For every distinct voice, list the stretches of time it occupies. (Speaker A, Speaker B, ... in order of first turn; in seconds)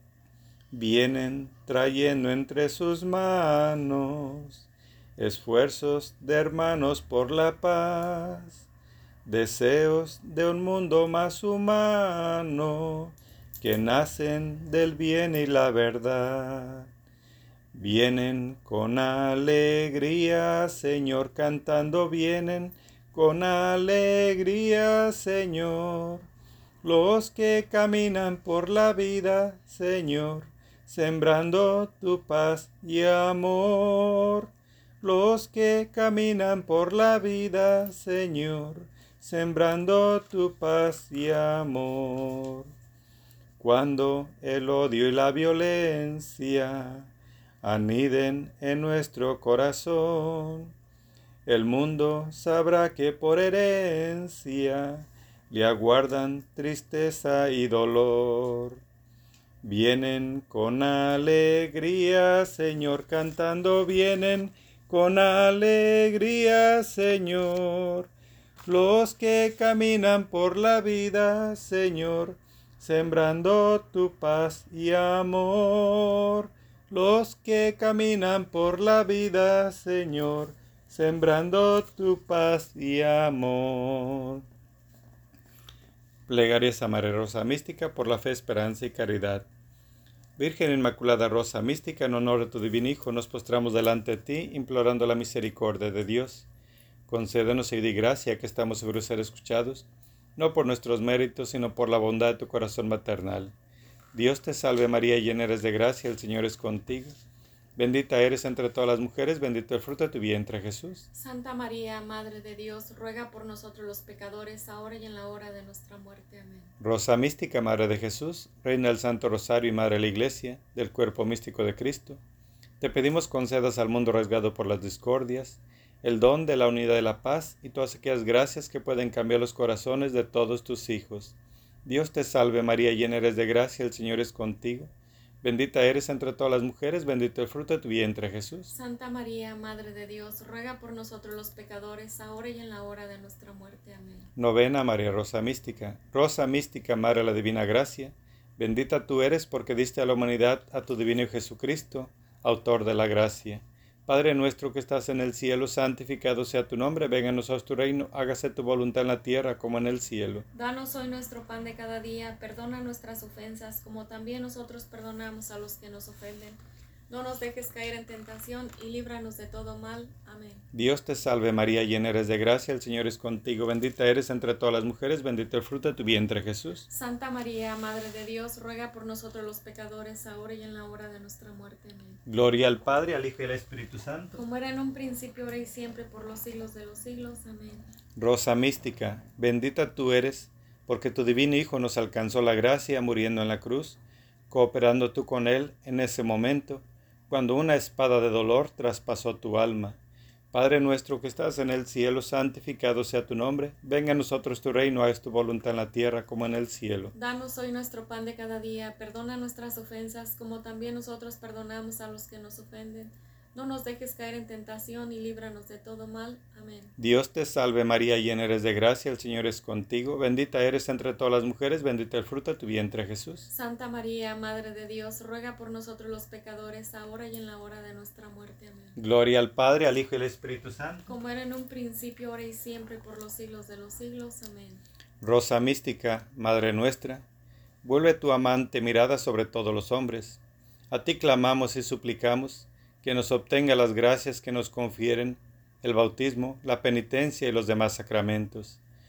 Speaker A: 0.7-8.6, 9.2-16.9, 17.7-26.3, 26.8-34.5, 35.0-42.7, 43.6-47.1, 47.6-50.7, 51.5-58.8, 59.6-68.1, 68.7-84.4, 86.3-89.5, 90.4-96.5, 97.1-99.8, 100.4-103.5, 104.1-107.2, 107.8-111.1, 116.8-122.2, 122.8-134.9, 135.4-138.7, 144.4-160.4, 170.7-176.8, 182.2-184.4, 188.2-194.0, 194.5-200.0, 200.5-207.1, 217.0-223.5, 229.0-231.1, 235.2-237.2, 237.8-240.4, 240.9-248.8
Speaker B: 111.1-116.7, 138.7-144.3, 160.5-170.7, 176.9-182.2, 184.3-187.8, 207.1-216.9, 223.5-229.0, 231.1-234.8